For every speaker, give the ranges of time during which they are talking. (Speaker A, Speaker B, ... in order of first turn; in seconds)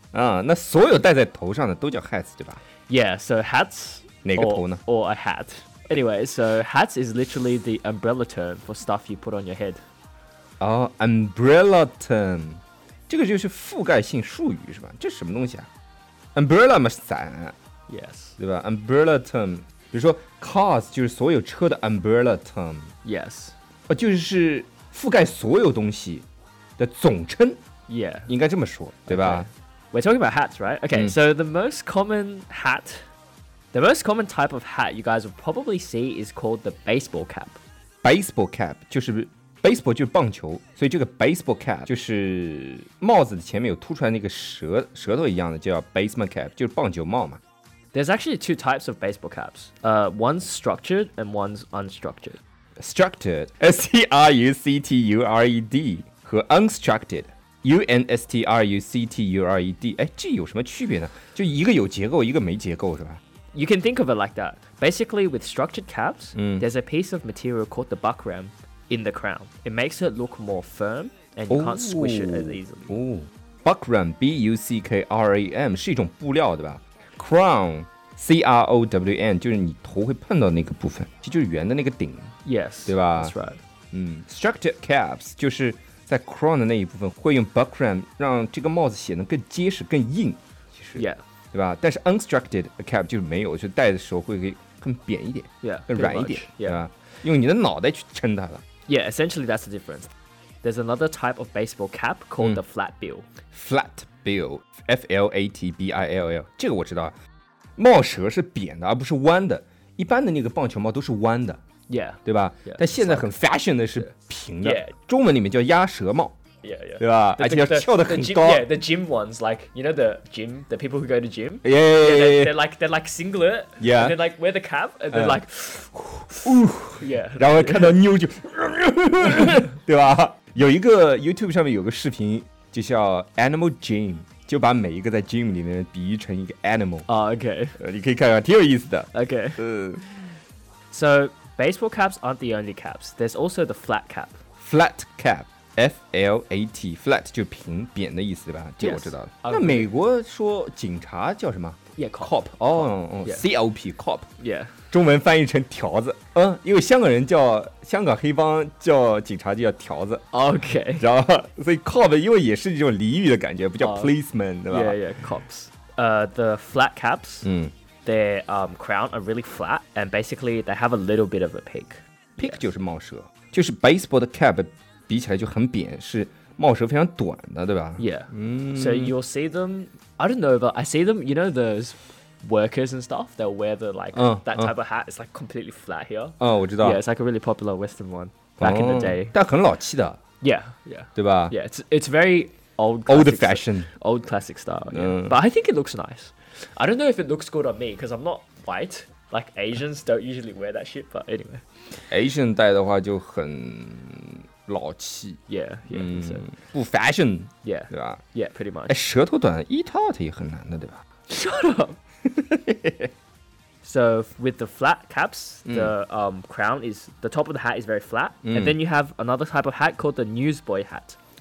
Speaker A: 0.1-2.6, 4.2-4.8, 10.6-15.7, 16.4-17.6, 18.4-22.9, 23.9-26.3, 26.8-27.6, 28.3-29.5, 38.0-47.4, 52.8-63.2, 66.4-66.7, 71.5-82.3, 82.9-83.3, 83.9-98.6, 103.5-107.1, 107.8-111.6, 112.2-116.4, 117.0-118.7, 121.6-122.6, 123.8-124.2, 125.1-125.4, 126.3-137.1, 137.8-140.0, 144.6-154.3, 154.9-160.2, 161.0-165.0, 167.4-167.7, 172.4-179.1, 184.1-184.7, 186.4-187.0, 188.6-190.2, 191.2-191.6, 193.1-193.9, 194.9-195.4, 202.1-208.2, 208.9-211.0, 212.3-213.1, 215.7-215.9, 218.4-218.8
Speaker B: 2.9-9.8, 17.9-18.4, 23.0-23.6, 27.9-28.3, 29.1-33.1, 33.7-37.6, 47.9-52.4, 63.5-73.0, 82.5-83.6, 91.0-91.2, 95.6-96.8, 98.9-100.1, 100.6-103.3, 111.9-113.3, 114.0-114.9, 116.6-126.2, 127.0-128.0, 137.1-137.8, 139.1-139.6, 140.9-144.4, 148.8-149.9, 152.0-153.5, 154.4-154.7, 160.3-161.1, 163.8-164.1, 164.7-167.5, 168.1-172.7, 178.0-189.3, 190.4-201.6, 205.5-206.5, 207.6-209.0, 211.3-212.0, 213.8-221.2